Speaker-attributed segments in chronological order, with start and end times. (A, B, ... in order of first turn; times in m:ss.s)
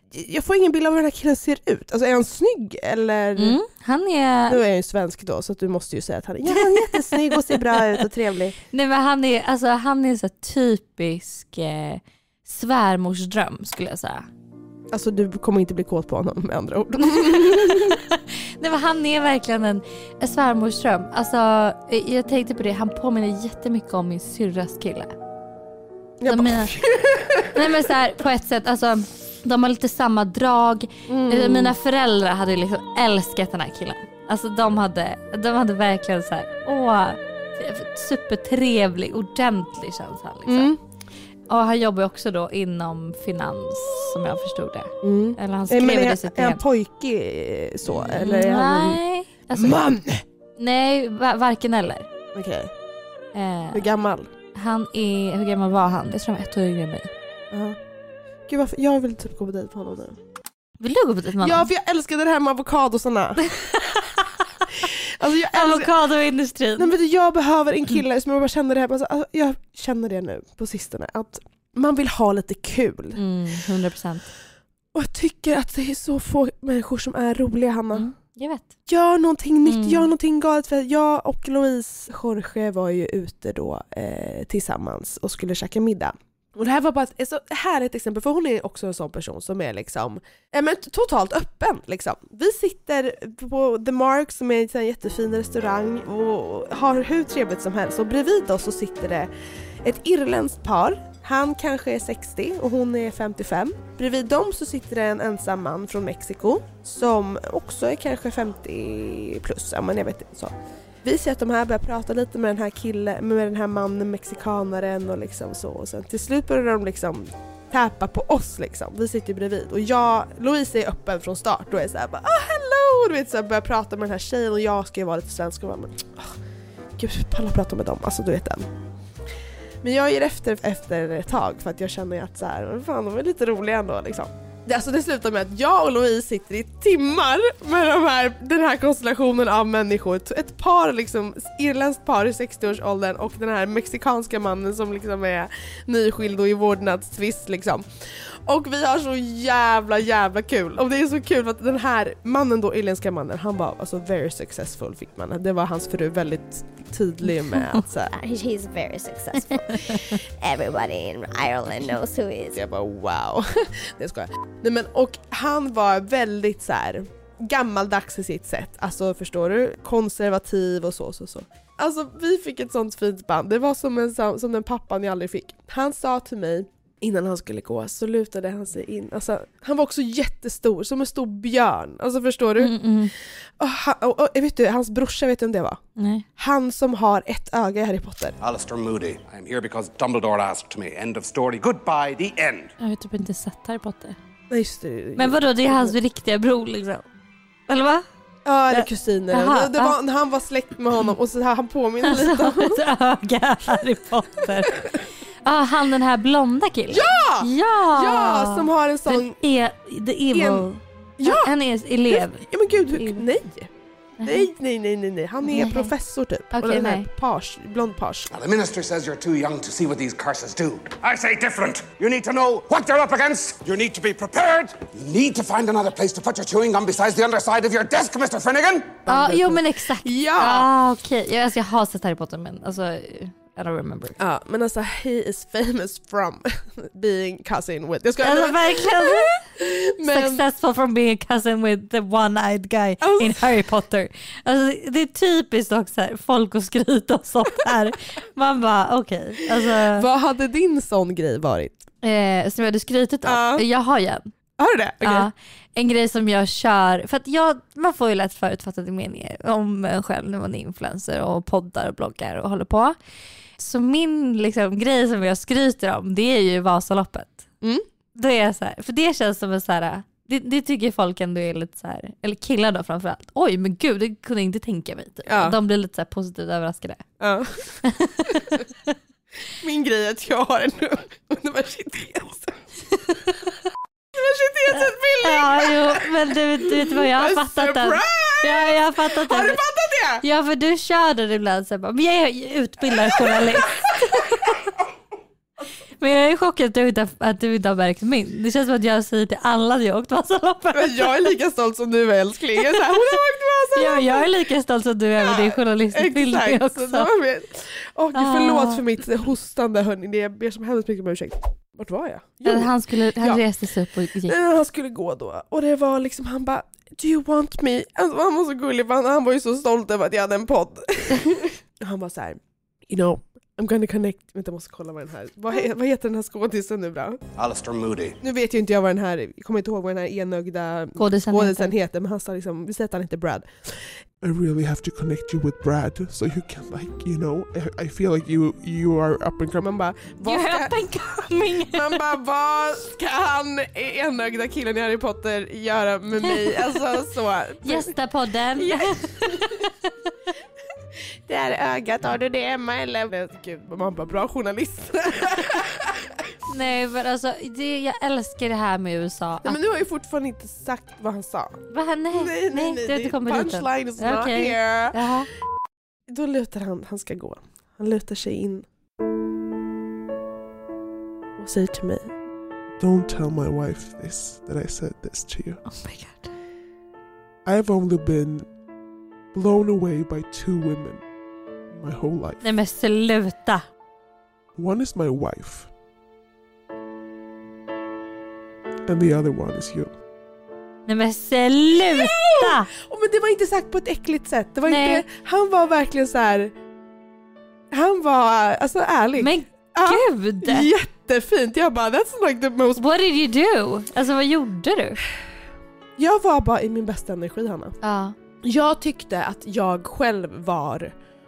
0:00.1-0:03.6 A
0:03.4-0:04.6 B
0:04.5-0:08.6 A
0:06.5-0:07.9 B
0:08.7-0:14.2 B
0:14.9-0:18.0 A
0:17.1-0:25.1 B
0:26.2-0:27.7 A
0:26.2-0:26.8 B
0:27.5-0:40.7 B
0:31.1-0:31.7 A
0:40.4-0:40.8 A
0:41.5-0:46.6 B
0:45.0-0:49.0 A
0:47.9-0:49.8 B
0:49.5-0:50.2 A
0:50.6-0:52.1 B
0:52.3-0:52.7 A
0:53.3-0:53.8 B
0:53.7-0:54.3 A
0:54.5-0:57.1 B
0:57.5-0:57.8 A
0:58.5-1:00.2 A
1:00.8-1:01.7 B
1:01.4-1:03.4 A
1:03.5-1:04.2 B
1:04.8-1:05.9 A
1:05.5-1:06.9 B
1:06.8-1:13.2 A
1:13.1-1:14.2 B
1:14.9-1:18.1 A
1:17.9-1:18.7 B
1:18.9-1:39.3 A
1:19.6-1:20.1 B
1:39.8-2:06.4 A
2:07.0-2:08.7 A
2:09.8-2:38.1 A
2:38.1-2:42.6 C
2:42.5-3:02.8 A
3:02.6-3:03.1 B
3:03.6-3:05.8 A
3:06.0-3:06.2 B
3:06.4-3:08.4 A
3:08.4-3:12.7 D
3:12.8-3:14.2 B
3:14.5-3:15.9 A
3:15.2-3:17.0 B
3:17.7-3:18.0 B
3:18.4-3:22.8 A
3:18.7-3:20.0 B
3:22.0-3:33.2 B
3:26.9-3:29.4 A
3:30.3-3:31.5 A
3:32.1-3:33.7 A
3:34.2-3:34.5 B
3:34.2-3:38.3 A
3:35.4-3:35.9 B
3:36.5-3:37.1 B
3:38.3-3:49.0 D
3:49.0-3:50.7 A
3:49.0-3:54.2 B
3:54.2-4:00.4 A
3:58.2-3:59.4 B
4:00.0-4:10.0 B
4:03.0-4:03.4 A
4:09.7-4:11.8 A
4:12.0-4:14.3 B
4:13.2-4:13.6 A
4:14.6-4:15.3 A
4:15.0-4:23.0 B
4:23.6-4:27.5 B
4:28.1-4:37.1 B
4:35.2-4:35.6 A
4:37.2-4:38.6 A
4:37.8-4:38.6 B
4:39.6-4:42.6 A
4:44.1-4:50.2 A
4:44.7-4:49.6 B
4:50.2-4:54.5 B
4:56.0-5:01.3 B
5:00.7-5:04.3 A
5:02.7-5:03.0 B
5:03.7-5:07.1 B
5:05.2-5:13.4 A
5:08.1-5:08.8 B
5:12.4-5:14.3 B
5:14.3-5:27.2 A
5:27.4-5:28.2 D
5:28.2-5:33.9 A
5:31.0-5:31.7 B
5:34.2-5:39.7 E
5:39.7-5:41.0 A
5:40.2-5:42.0 B
5:41.6-5:47.9 A
5:46.3-5:46.6 B
5:47.6-5:49.7 B
5:48.6-5:48.9 A
5:51.2-5:56.0 A
5:56.5-5:59.6 B
5:59.4-6:01.6 A
6:01.7-6:05.3 B
6:02.1-6:05.0 A
6:06.1-6:08.6 A
6:11.4-6:12.1 A
6:12.8-6:15.6 E
6:15.6-6:16.3 B
6:17.4-6:18.5 E
6:19.3-6:21.0 E
6:21.7-6:22.4 E
6:22.4-6:23.6 B
6:24.6-6:25.7 E
6:28.8-6:29.9 E
6:30.9-6:32.7 B
6:31.9-6:36.5 A
6:34.6-6:35.0 B
6:37.7-6:42.8 A
6:39.2-6:40.7 B
6:42.8-6:45.0 B
6:46.0-6:47.8 A
6:47.8-6:48.2 B
6:48.4-6:50.9 A